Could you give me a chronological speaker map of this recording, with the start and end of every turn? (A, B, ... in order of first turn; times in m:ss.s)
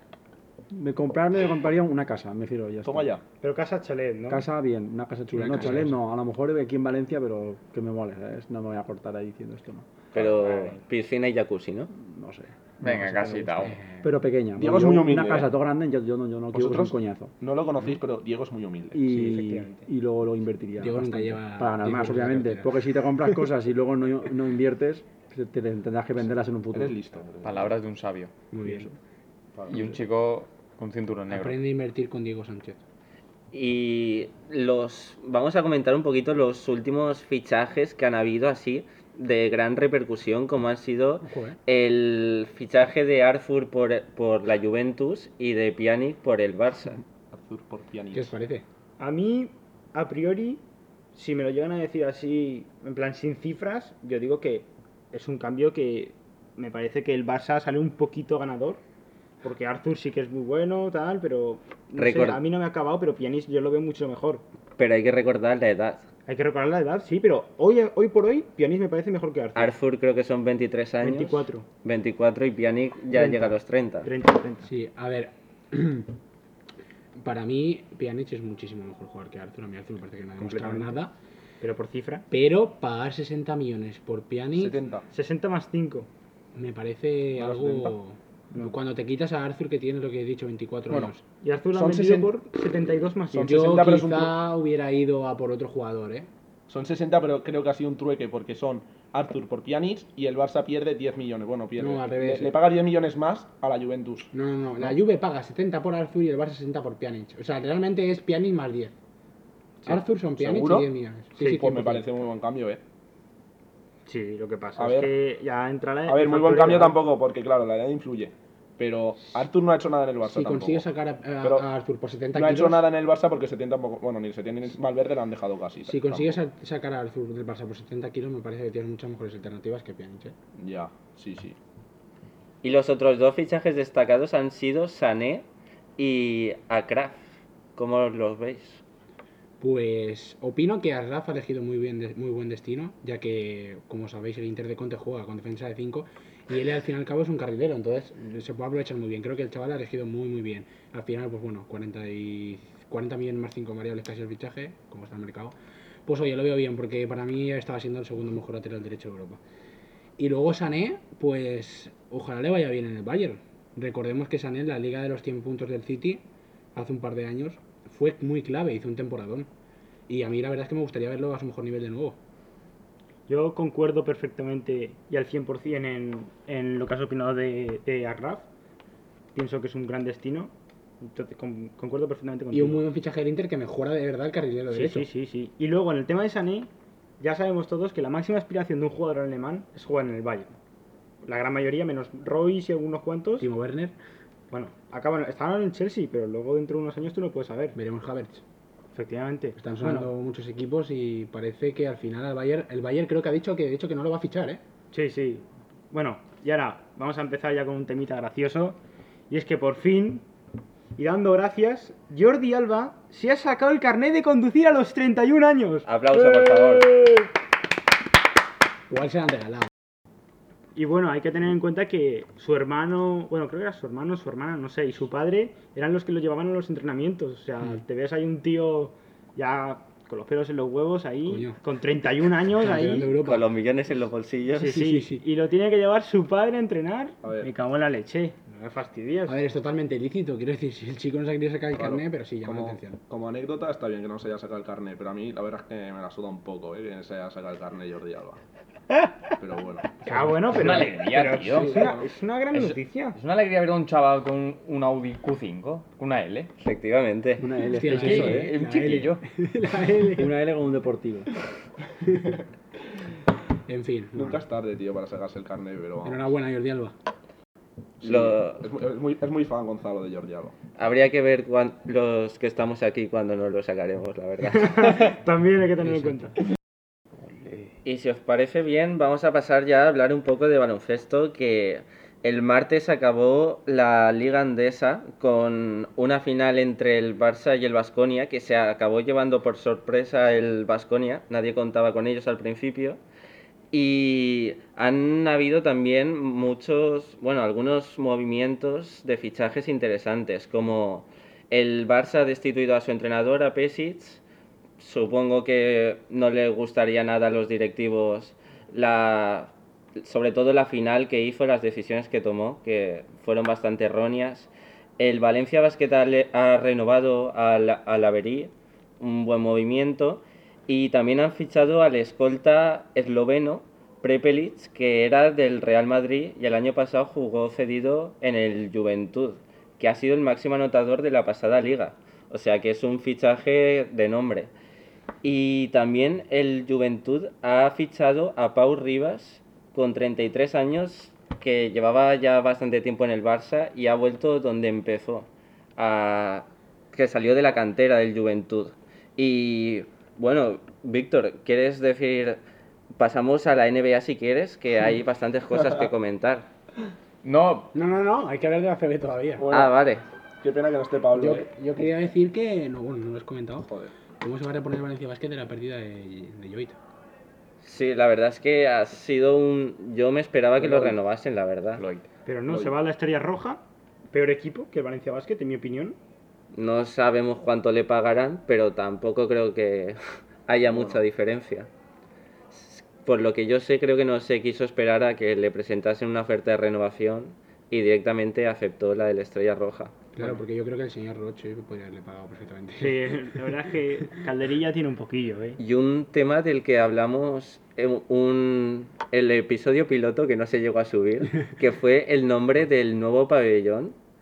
0:00.7-0:03.1 A
0:02.8-0:03.2 B
0:03.4-0:04.4 C
0:04.3-0:09.9 A
0:05.3-0:05.9 D
0:10.1-0:11.9 E
0:11.9-0:13.2 A
0:12.8-0:13.8 F
0:14.0-0:17.3 A
0:14.6-0:15.5 B
0:16.5-0:19.1 B
0:18.9-0:27.0 A
0:19.1-0:19.9 C
0:20.8-0:22.7 D
0:26.7-0:27.7 B
0:27.4-0:28.3 F
0:28.5-0:28.9 D
0:29.6-0:30.0 B
0:29.7-0:31.6 F
0:31.3-0:32.8 D
0:33.5-0:47.0 E
0:41.2-0:41.6 D
0:47.3-0:48.3 B
0:48.1-0:48.6 D
0:49.0-0:50.6 C
0:51.1-0:58.8 C
0:59.4-1:04.4 C
1:02.0-1:02.4 E
1:04.8-1:06.0 E
1:06.3-1:09.8 C
1:09.5-1:14.1 E
1:11.0-1:11.6 C
1:13.1-1:14.7 C
1:14.6-1:16.1 D
1:17.2-1:21.1 D
1:20.4-1:20.9 C
1:21.6-1:22.2 C
1:22.3-1:24.8 D
1:24.6-1:25.0 B
1:25.1-1:26.1 C
1:26.5-1:31.2 D
1:27.4-1:28.0 B
1:31.4-1:33.6 C
1:31.7-1:32.3 B
1:33.3-1:34.4 B
1:33.4-1:36.3 D
1:36.7-1:45.0 B
1:41.8-1:42.6 D
1:44.3-1:48.9 D
1:49.8-1:52.1 D
1:49.9-1:50.9 B
1:51.4-1:52.8 B
1:54.0-1:57.0 C
1:54.8-1:55.1 B
1:56.1-2:00.8 B
2:00.2-2:02.8 D
2:01.4-2:01.7 B
2:02.3-2:06.4 B
2:05.8-2:10.3 D
2:10.6-2:11.6 B
2:12.6-2:15.4 E
2:16.0-2:17.2 E
2:17.8-2:18.8 E
2:19.6-2:35.5 D
2:36.0-2:39.4 D
2:40.2-2:46.2 D
2:46.7-2:49.5 D
2:50.1-2:52.2 D
2:53.3-2:58.4 C
2:59.3-3:02.8 C
3:02.5-3:05.1 D
3:04.7-3:06.7 C
3:07.2-3:10.5 C
3:11.2-3:13.5 C
3:13.4-3:13.9 D
3:14.5-3:17.8 C
3:17.7-3:18.4 D
3:18.9-3:20.1 C
3:19.6-3:24.6 D
3:24.9-3:28.8 C
3:29.3-3:30.2 C
3:31.0-3:35.9 C
3:35.8-3:36.9 E
3:36.5-3:37.2 C
3:38.9-3:39.7 D
3:40.7-3:53.1 C
3:51.3-3:51.6 D
3:52.5-3:53.5 D
3:53.2-3:54.8 E
3:54.5-3:59.4 C
3:54.7-3:55.2 D
3:57.2-3:57.5 B
3:59.3-4:03.0 D
4:01.8-4:08.4 B
4:09.4-4:10.1 B
4:10.0-4:13.2 C
4:10.5-4:16.5 F
4:11.6-4:12.0 B
4:16.6-4:17.4 E
4:17.4-4:18.6 A
4:17.6-4:20.3 D
4:17.8-4:19.2 F
4:20.1-4:21.3 A
4:23.7-4:24.4 D
4:24.1-4:26.2 B
4:26.0-4:26.9 D
4:28.0-4:30.5 B
4:28.0-4:28.7 E
4:30.8-4:35.0 E
4:34.5-4:36.3 C
4:37.8-4:53.0 E
4:53.7-5:04.2 E
5:04.8-5:34.5 E
5:35.2-5:52.4 E
5:53.0-5:56.5 E
5:57.2-5:57.7 F
5:57.7-5:59.4 D
5:59.4-5:59.8 B
5:59.5-6:00.0 E
6:00.4-6:01.5 B
6:01.1-6:06.8 D
6:03.6-6:03.9 B
6:07.6-6:11.8 E
6:10.6-6:10.9 B
6:11.8-6:12.0 F
6:12.2-6:13.6 C
6:12.5-6:12.8 B
6:14.1-6:16.0 C
6:16.5-6:21.7 E
6:20.7-6:21.0 B
6:22.5-6:30.0 E
6:30.1-6:33.5 D
6:32.8-6:35.6 C
6:35.6-6:43.9 E